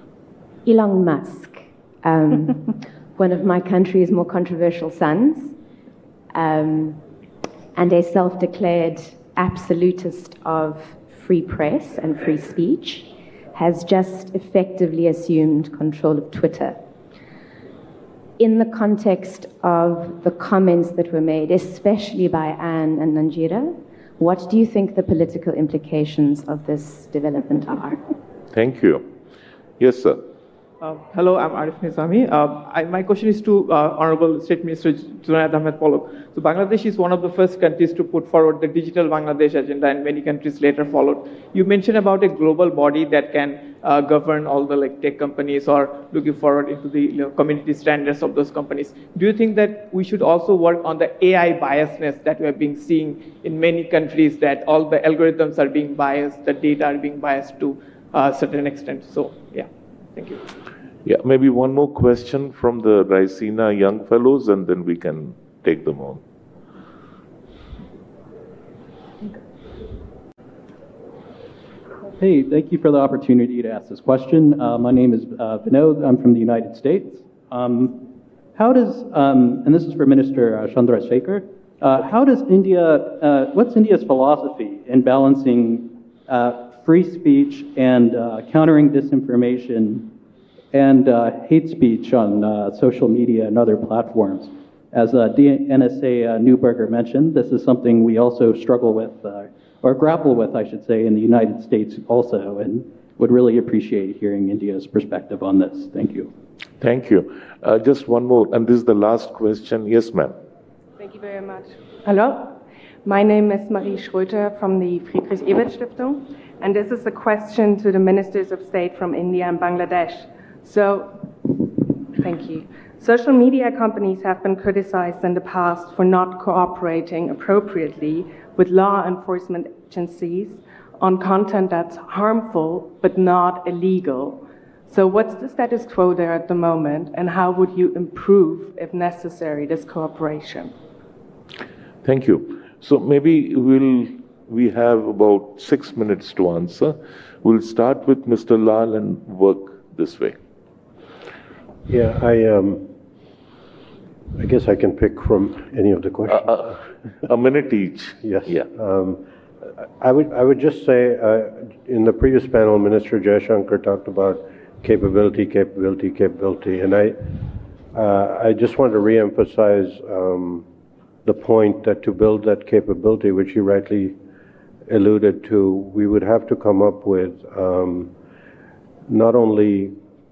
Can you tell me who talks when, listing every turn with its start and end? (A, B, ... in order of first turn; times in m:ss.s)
0:00.6-0:05.6 A
0:06.3-0:07.0 A
0:07.8-0:16.8 A
0:18.4-0:28.0 A
0:28.5-0:29.1 B
0:29.8-0:30.2 B
0:30.8-1:00.4 C
1:01.0-1:06.2 B
1:12.2-1:30.1 D
1:30.7-1:46.3 D
1:46.8-1:50.4 B
1:51.0-2:20.7 E
2:22.0-2:30.4 B
2:31.9-2:32.9 F
2:34.4-2:36.8 F
2:36.4-2:38.7 B
2:38.2-2:39.2 F
2:40.0-2:47.2 F
2:47.9-2:50.7 F
2:51.2-2:54.2 F
2:54.9-2:58.1 F
2:59.1-3:00.0 F